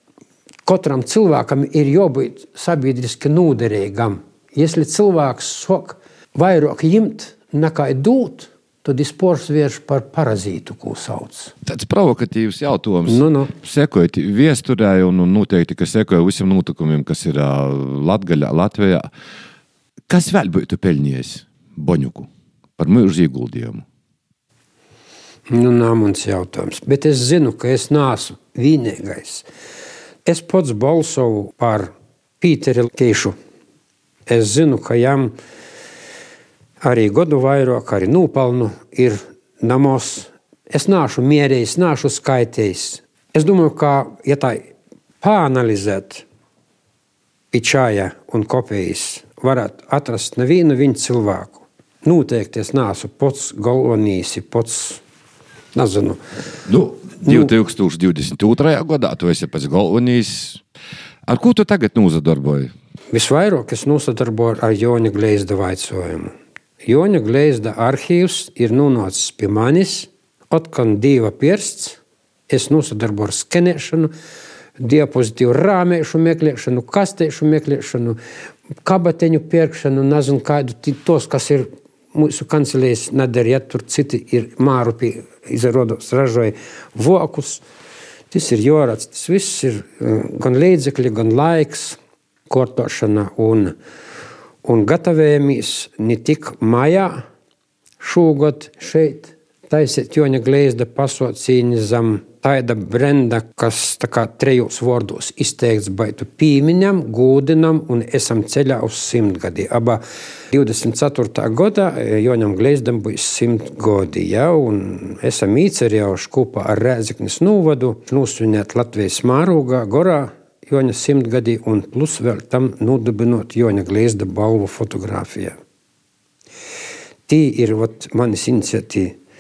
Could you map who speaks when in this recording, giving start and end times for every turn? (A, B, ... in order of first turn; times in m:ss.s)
0:00.6-0:11.5 A
0:11.6-0:19.1 B
0:13.1-0:13.5 A
0:20.1-0:23.8 B
0:25.5-0:29.4 A
0:30.2-0:33.4 A
0:34.3-0:35.4 A
0:36.8-0:44.7 A
0:45.2-0:46.2 A
0:47.5-0:55.0 A
0:55.8-0:56.2 A
0:56.7-1:00.6 B
0:57.2-0:57.5 A
1:01.3-1:02.7 B
1:03.1-1:14.1 A
1:14.8-1:18.2 A
1:18.8-1:27.6 A
1:28.3-1:32.0 A
1:32.5-1:33.8 A
1:34.6-1:37.2 A
1:38.0-1:50.0 A
1:50.5-2:05.6 A
2:07.3-2:09.2 A